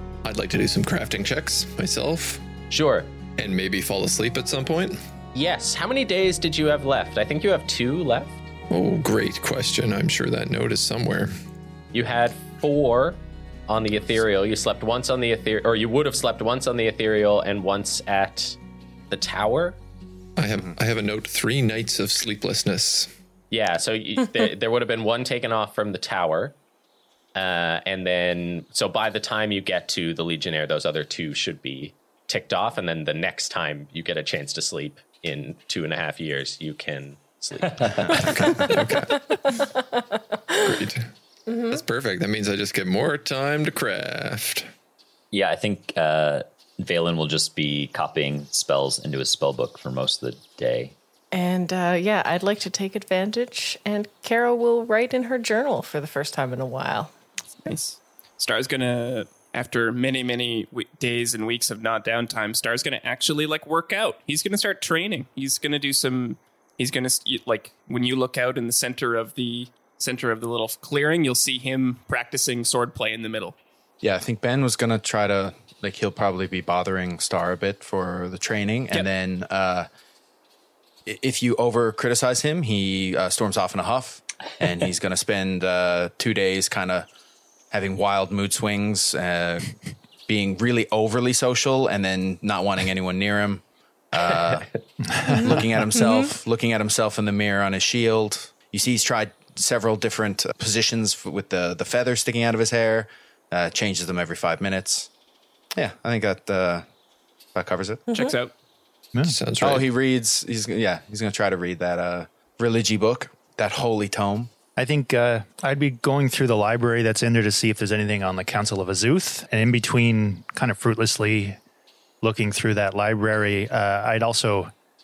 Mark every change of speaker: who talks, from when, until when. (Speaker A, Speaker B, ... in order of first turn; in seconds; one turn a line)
Speaker A: 0.2-2.4
Speaker B: 2.7-3.1
Speaker A: 3.4-5.0
Speaker B: 5.3-8.4
Speaker A: 8.7-11.3
Speaker B: 11.9-18.6
Speaker B: 19.1-19.8
Speaker A: 20.4-23.1
Speaker B: 23.5-26.6
Speaker B: 27.4-38.3
Speaker A: 38.1-39.7
Speaker A: 40.5-41.1
Speaker C: 41.5-41.8
Speaker A: 41.7-44.7
Speaker D: 45.3-51.0
Speaker C: 51.3-57.1
Speaker E: 57.6-73.6
Speaker F: 74.0-79.9
Speaker F: 81.1-87.1
Speaker F: 87.7-89.8
Speaker F: 90.3-94.7
Speaker G: 95.1-95.6
Speaker F: 95.2-105.1
Speaker C: 95.3-96.2
Speaker F: 105.8-106.9
Speaker F: 107.5-108.0
Speaker E: 108.1-108.5
Speaker A: 109.2-109.9
Speaker F: 109.6-114.5
Speaker G: 114.8-121.6
Speaker G: 122.2-124.7